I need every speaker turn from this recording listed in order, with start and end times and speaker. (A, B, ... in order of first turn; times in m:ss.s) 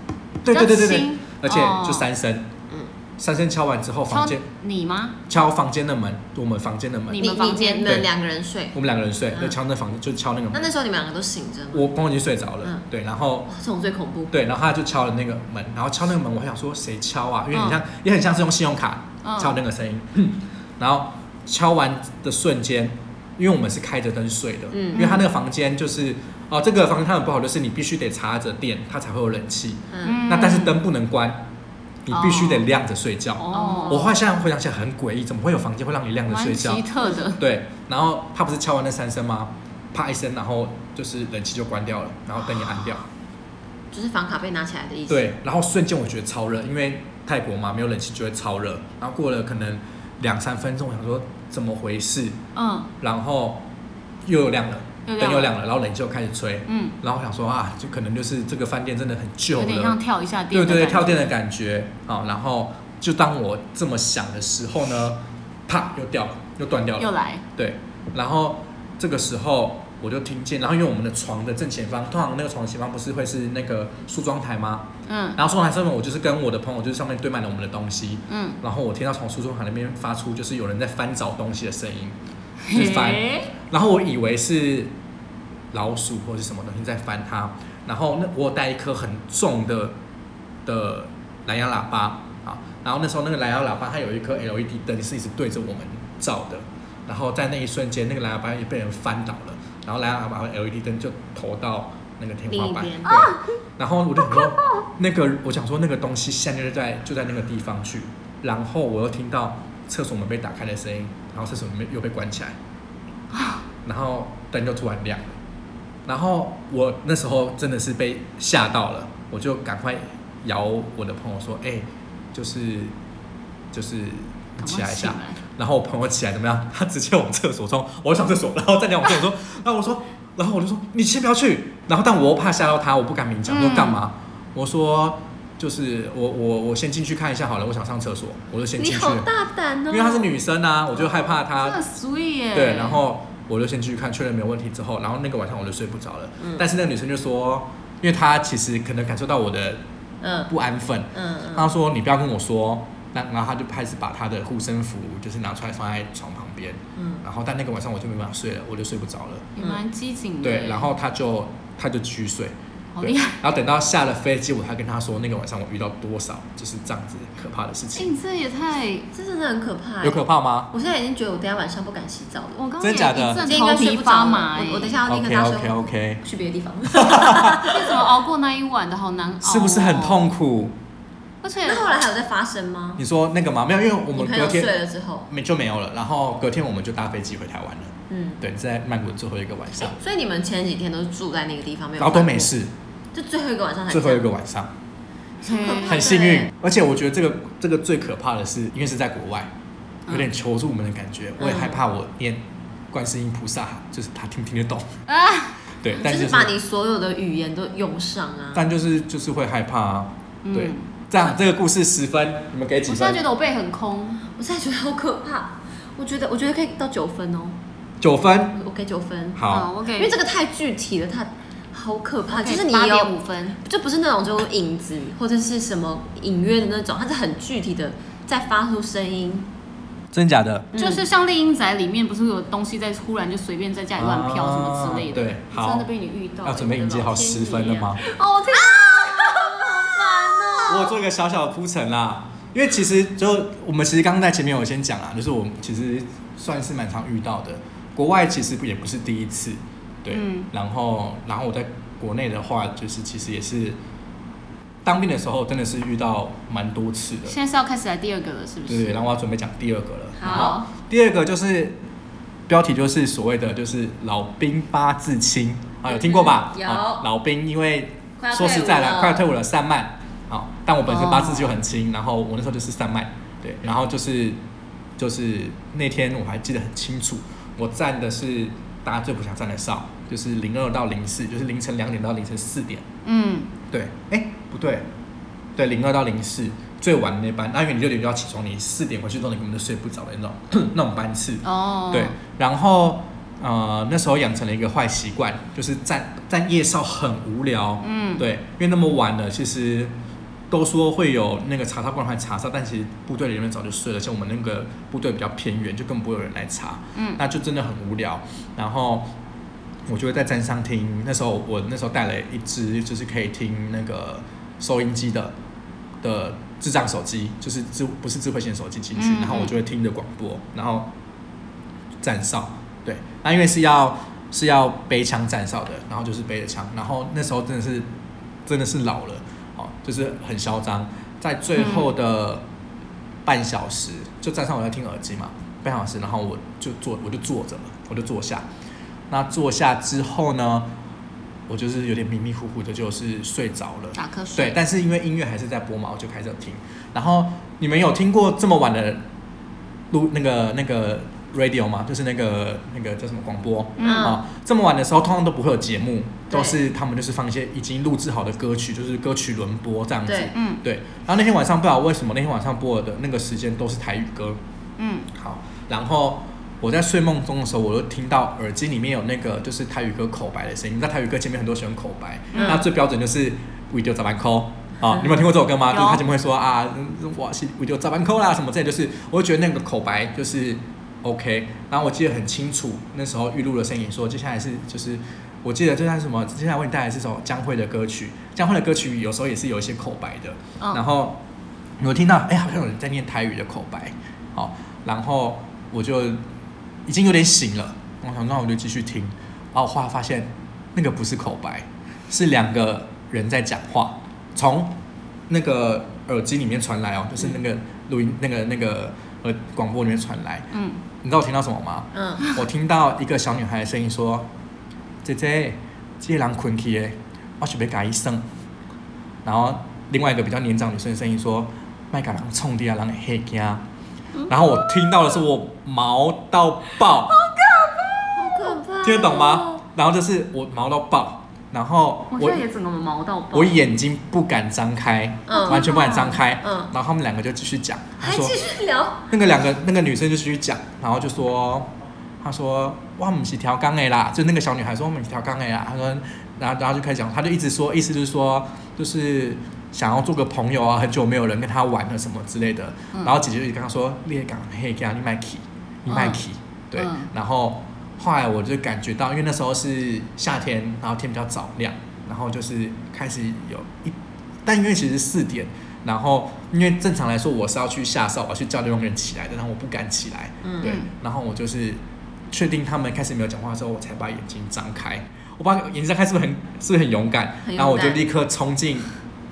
0:00.4-0:02.5 A
0:00.5-0:02.1 B
0:03.2-0:04.4 A
0:04.1-0:05.2 B
0:05.3-0:08.1 A
0:07.1-0:08.0 B
0:07.2-0:08.8 C
0:08.7-0:10.7 A
0:10.5-0:11.9 C
0:11.7-0:13.5 A
0:13.5-0:14.3 C
0:14.3-0:31.5 A
0:19.2-0:19.6 B
0:24.7-0:25.2 C
0:25.0-0:25.2 B
0:29.9-0:30.2 C
0:30.0-0:30.8 B
0:32.0-0:43.1 A
0:32.1-0:32.7 B
0:33.4-0:34.1 B
0:33.5-0:34.1 C
0:36.3-0:37.4 B
0:43.9-0:45.3 C
0:45.1-0:52.4 A
0:52.5-0:52.9 B
0:53.0-0:53.6 A
0:54.2-1:00.0 A
0:55.0-0:55.5 B
0:56.7-0:57.0 B
0:59.6-1:01.3 B
1:00.5-1:22.2 A
1:07.0-1:07.4 B
1:15.0-1:15.4 B
1:18.3-1:18.6 B
1:22.6-1:23.5 B
1:22.7-1:24.9 A
1:25.7-1:30.0 A
1:30.6-1:52.6 A
1:42.5-1:43.2 C
1:43.0-1:43.4 B
1:44.3-1:44.5 B
1:53.8-1:55.4 A
1:56.0-2:02.9 A
2:03.7-2:19.3 A
2:04.6-2:05.4 B
2:13.5-2:14.0 B
2:18.8-2:20.3 C
2:19.9-2:21.8 A
2:21.4-2:23.0 B
2:22.5-2:29.8 A
2:26.4-2:26.6 C
2:30.2-2:30.5 C
2:30.5-2:39.5 A
2:31.1-2:31.7 C
2:37.0-2:37.2 C
2:39.6-2:40.9 B
2:40.4-2:48.1 A
2:43.0-2:43.4 B
2:47.9-2:49.1 B
2:49.1-2:52.6 C
2:50.0-2:50.7 A
2:52.6-2:55.0 B
2:52.8-2:53.5 A
2:53.4-2:58.0 C
2:55.0-2:56.2 A
2:56.9-2:57.6 A
2:57.6-3:00.3 B
2:59.4-3:00.7 A
3:01.4-3:01.9 B
3:01.6-3:03.0 C
3:03.0-3:04.7 A
3:04.1-3:05.3 C
3:05.3-3:10.0 A
3:08.1-3:08.4 C
3:09.8-3:12.5 C
3:12.0-3:12.7 A
3:13.1-3:14.3 C
3:13.9-3:14.7 A
3:15.4-3:16.1 B
3:15.4-3:16.5 C
3:15.8-3:19.5 A
3:20.1-3:24.9 A
3:21.4-3:21.8 C
3:25.1-3:25.6 B
3:25.8-3:26.5 A
3:26.0-3:28.7 C
3:28.5-3:33.2 A
3:30.4-3:30.9 B
3:32.8-3:34.2 B
3:34.3-3:37.6 C
3:38.0-3:38.6 A
3:38.5-3:39.4 C
3:39.3-3:39.7 A
3:39.5-3:40.2 B
3:39.9-3:49.5 C
3:42.3-3:43.6 B
3:50.1-3:50.7 A
3:50.7-3:51.0 C
3:50.8-4:00.6 B
3:54.0-3:55.9 A
3:56.4-3:58.0 A
3:58.5-4:00.9 C
4:00.7-4:13.8 A
4:10.1-4:10.5 B
4:14.8-4:17.4 A
4:17.2-4:19.0 B
4:18.7-4:21.8 A
4:20.2-4:20.6 C
4:20.2-4:20.6 B
4:22.5-4:34.4 A
4:25.9-4:27.0 C
4:28.2-4:29.2 C
4:30.9-4:31.5 B
4:35.0-4:42.8 A
4:43.0-4:43.5 B
4:43.7-4:44.8 A
4:45.6-4:59.9 A
4:51.4-4:52.1 B
4:57.8-4:58.2 B
5:00.5-5:09.1 A
5:06.9-5:07.2 B
5:09.9-5:15.3 A
5:16.0-5:20.9 A
5:19.0-5:19.5 B
5:22.0-5:27.9 A
5:28.4-5:32.4 A
5:31.6-5:31.9 B
5:33.2-5:38.5 A
5:39.1-5:40.7 A
5:41.5-5:49.0 A
5:43.9-5:44.6 B
5:49.9-6:04.4 A
5:53.8-5:54.2 B
5:53.8-5:54.2 C
5:56.3-5:56.6 C
6:00.1-6:00.3 C
6:00.3-6:00.6 B
6:04.8-6:05.1 B
6:05.1-6:31.2 A
6:12.3-6:12.6 B
6:12.3-6:12.6 C
6:15.7-6:16.0 B
6:31.8-6:36.2 A
6:36.8-6:44.8 A
6:45.3-6:50.5 A
6:50.5-6:50.8 B
6:51.0-6:54.3 A
6:51.9-6:52.3 C
6:55.0-6:58.2 A
6:59.2-7:03.6 A
7:04.3-7:07.2 A
7:07.2-7:08.1 B
7:08.1-7:09.6 C
7:08.8-7:12.4 A
7:12.1-7:13.6 B
7:13.3-7:18.4 A
7:15.3-7:16.7 C
7:15.3-7:16.2 B
7:18.0-7:19.1 C
7:19.1-7:21.7 A
7:22.2-7:58.9 A
7:35.9-7:36.2 B
7:36.8-7:37.1 B
7:50.4-7:50.7 C
7:57.4-7:58.0 C